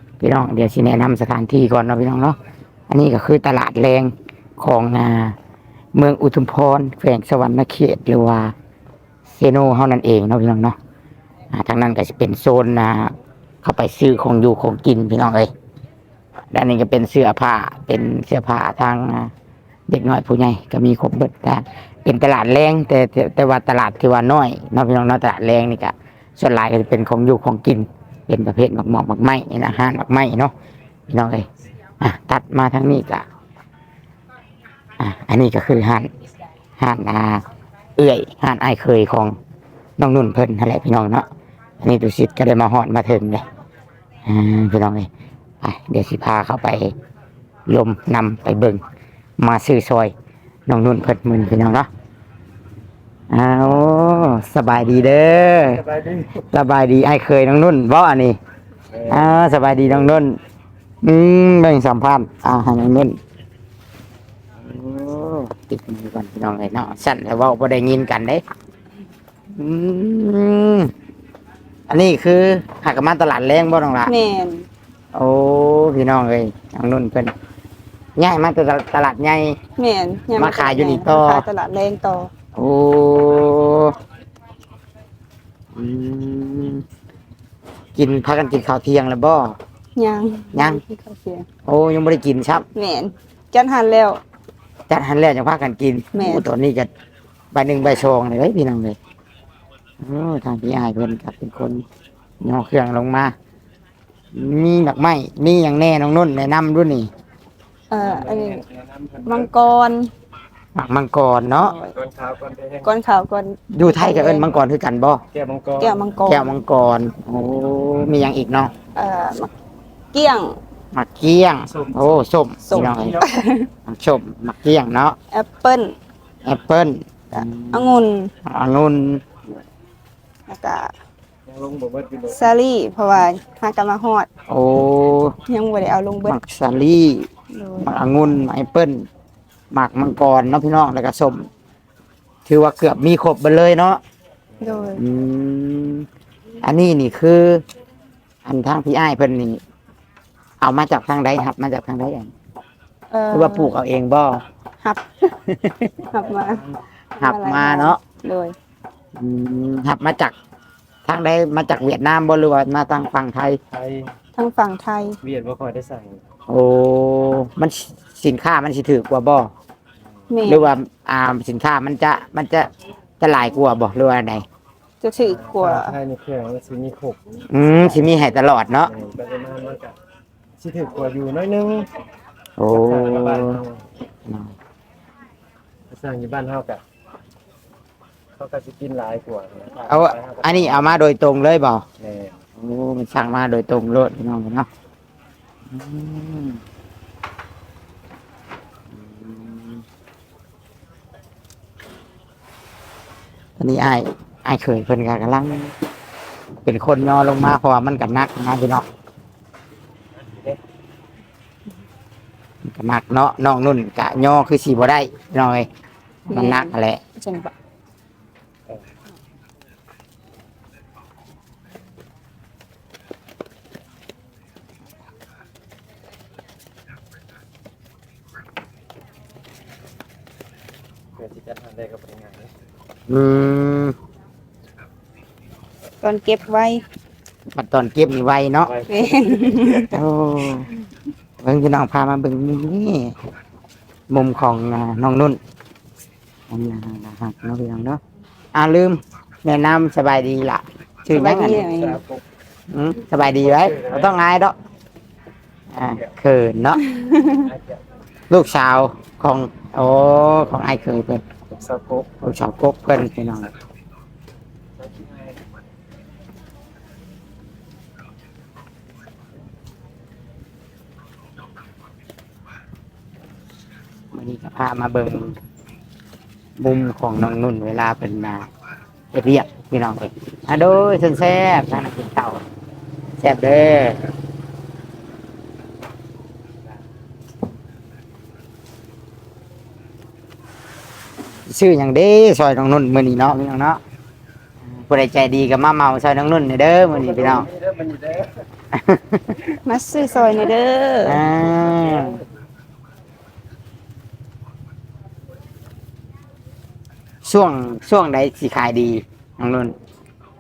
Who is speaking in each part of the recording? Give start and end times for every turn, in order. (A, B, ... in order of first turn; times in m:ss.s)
0:00.2-0:02.4 A
0:02.9-0:05.4 A
0:06.0-0:08.5 A
0:09.4-0:10.8 A
0:11.5-0:15.5 A
0:16.5-0:19.3 A
0:19.9-0:30.5 A
0:31.1-0:31.5 A
0:32.0-0:33.3 A
0:35.0-0:36.1 A
0:36.8-0:37.4 A
0:38.0-0:39.4 A
0:40.0-0:41.3 A
0:41.8-0:43.4 A
0:44.2-0:45.1 A
0:45.6-0:46.9 A
0:47.7-0:48.8 A
0:49.4-0:50.1 A
0:50.7-0:51.9 A
0:53.3-0:55.8 A
0:55.8-0:56.3 B
0:56.4-0:58.4 A
0:58.9-0:59.3 B
0:59.1-1:00.4 A
1:01.0-1:03.2 A
1:04.6-1:08.4 A
1:09.6-1:10.9 A
1:11.9-1:14.1 A
1:14.1-1:14.7 C
1:15.1-1:17.3 A
1:18.2-1:19.6 A
1:19.8-1:22.3 C
1:20.4-1:21.4 A
1:22.6-1:24.0 A
1:25.7-1:26.8 A
1:28.0-1:29.6 A
1:30.0-1:31.5 C
1:30.6-1:30.8 A
1:31.7-1:32.6 A
1:32.8-1:34.2 C
1:34.9-1:36.9 A
1:36.1-1:36.5 C
1:37.5-1:39.0 A
1:40.0-1:41.8 A
1:42.4-1:43.3 A
1:44.3-1:47.1 A
1:47.9-1:48.6 C
1:48.0-1:49.5 B
1:49.3-1:50.1 C
1:50.8-1:51.8 A
1:51.6-1:52.0 C
1:51.9-1:52.9 B
1:52.8-1:54.5 C
1:53.7-1:55.2 A
1:55.3-1:56.1 B
1:55.8-1:56.6 C
1:56.3-1:58.7 A
1:59.0-1:59.5 C
2:00.1-2:00.6 C
2:00.9-2:03.2 A
2:01.7-2:02.0 B
2:02.7-2:03.7 C
2:03.9-2:05.2 A
2:05.3-2:06.0 C
2:06.4-2:09.2 A
2:07.3-2:08.3 C
2:10.5-2:10.9 C
2:11.5-2:12.5 B
2:12.3-2:14.3 C
2:14.5-2:15.4 A
2:15.5-2:16.4 C
2:16.3-2:19.1 A
2:17.5-2:17.9 C
2:19.7-2:21.5 A
2:22.5-2:24.0 A
2:24.6-2:25.0 C
2:25.0-2:26.1 A
2:26.6-2:27.6 A
2:28.4-2:29.6 A
2:30.6-2:32.3 A
2:33.1-2:33.7 C
2:33.3-2:34.4 A
2:34.8-2:35.3 C
2:35.5-2:36.1 A
2:36.1-2:36.6 C
2:36.3-2:36.8 B
2:37.2-2:38.6 C
2:37.2-2:38.0 A
2:39.2-2:40.3 A
2:41.1-2:43.6 A
2:43.7-2:44.1 B
2:44.4-2:45.2 C
2:45.2-2:46.2 B
2:46.5-2:49.5 A
2:50.3-2:50.7 C
2:50.4-2:52.7 A
2:53.2-2:54.4 A
2:55.0-2:56.0 C
2:55.3-2:57.4 B
2:57.5-2:58.9 A
2:58.9-3:00.0 B
3:00.6-3:01.9 B
3:02.6-3:03.6 A
3:02.7-3:03.8 B
3:04.3-3:04.5 A
3:05.9-3:06.8 B
3:08.4-3:10.8 B
3:09.9-3:11.8 A
3:12.0-3:12.4 B
3:12.6-3:14.7 A
3:15.7-3:16.6 A
3:19.0-3:19.8 A
3:23.6-3:25.7 A
3:26.6-3:28.9 A
3:30.2-3:30.6 B
3:32.6-3:35.7 A
3:36.3-3:37.5 C
3:36.3-3:37.0 A
3:51.2-3:52.5 B
3:53.1-3:54.0 A
3:56.0-3:56.8 C
3:57.5-3:58.7 A
3:58.7-3:59.9 B
3:58.9-3:59.9 C
3:59.9-4:00.7 A
4:01.4-4:03.1 A
4:04.1-4:05.4 A
4:06.5-4:08.0 A
4:08.5-4:11.7 A
4:11.1-4:12.0 C
4:11.7-4:12.2 B
4:12.7-4:14.6 A
4:13.4-4:14.1 B
4:15.7-4:16.8 A
4:16.8-4:17.5 C
4:17.4-4:17.8 B
4:18.3-4:21.2 A
4:21.5-4:22.2 B
4:22.2-4:23.5 A
4:24.8-4:25.4 B
4:34.1-4:35.4 A
4:36.6-4:38.5 A
4:39.1-4:42.4 A
4:43.2-4:44.1 A
4:51.5-4:53.8 A
4:54.8-4:57.5 A
4:56.9-4:58.4 B
4:58.7-4:59.5 A
4:59.6-5:01.2 C
5:01.0-5:02.2 A
5:01.7-5:02.2 B
5:07.2-5:09.8 A